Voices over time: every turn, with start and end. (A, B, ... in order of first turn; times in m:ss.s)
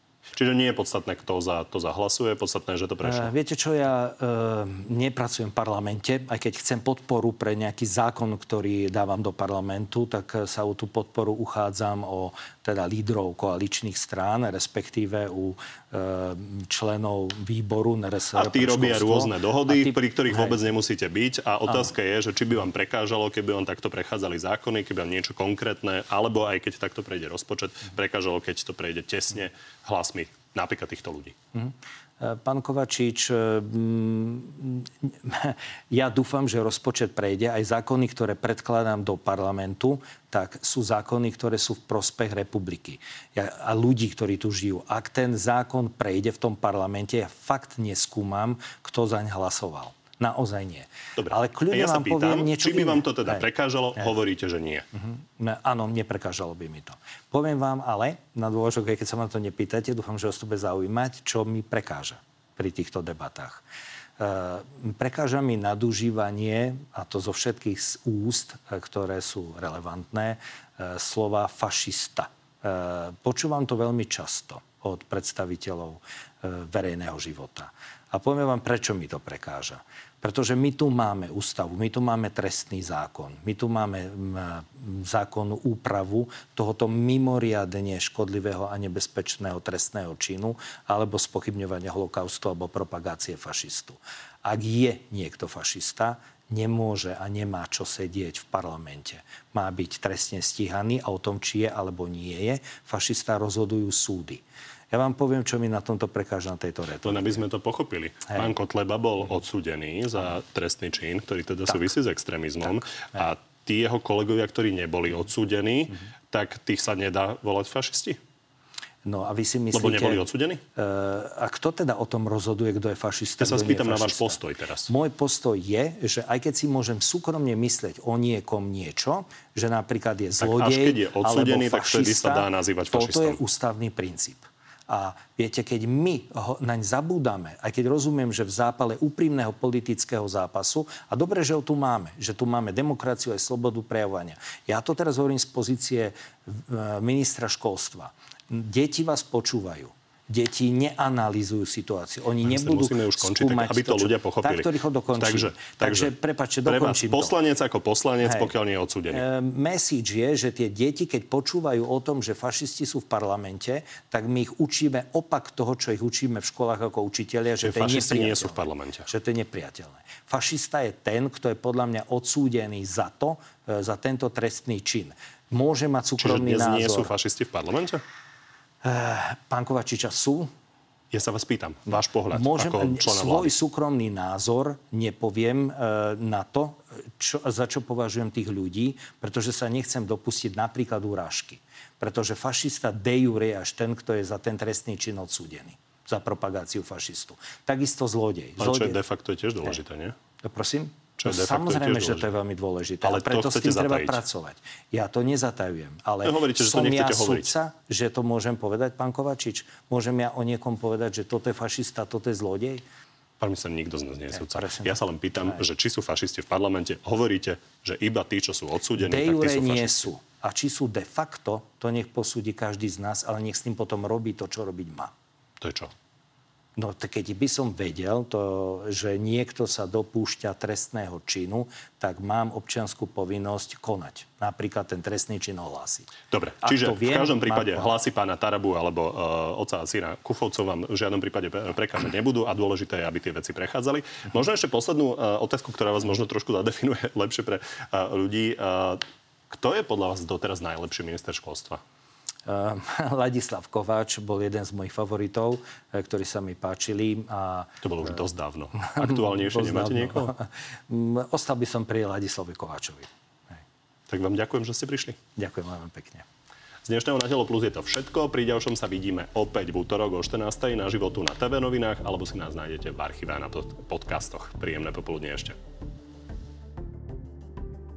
0:00.4-0:03.3 A
0:03.0-0:20.6 B
0:18.4-0:31.4 A
0:31.5-0:53.4 B
0:51.2-0:54.9 A
0:55.0-1:03.6 B
1:04.2-1:47.4 B
1:47.0-1:58.2 A
1:52.6-1:53.3 B
1:59.0-2:37.4 B
1:59.7-2:00.6 A
2:03.4-2:04.9 A
2:10.4-2:13.4 A
2:32.4-2:36.1 A
2:36.6-2:39.2 A
2:38.2-2:38.5 B
2:39.1-2:57.1 B
2:47.6-2:49.1 A
2:56.2-2:58.0 A
2:58.8-3:00.5 B
3:01.1-3:03.6 A
3:01.9-3:19.0 B
3:18.6-3:20.2 A
3:20.4-3:32.8 B
3:21.2-3:22.3 A
3:23.0-3:24.2 A
3:26.2-3:27.5 A
3:33.4-3:40.1 A
3:34.3-3:35.6 B
3:39.0-3:45.1 B
3:45.6-3:45.9 A
3:46.8-3:56.1 B
3:56.3-4:11.8 A
3:56.6-3:58.0 B
4:12.4-4:18.2 B
4:17.8-4:20.3 A
4:18.9-4:23.6 B
4:24.1-4:25.2 A
4:25.4-4:26.2 B
4:26.9-4:35.6 A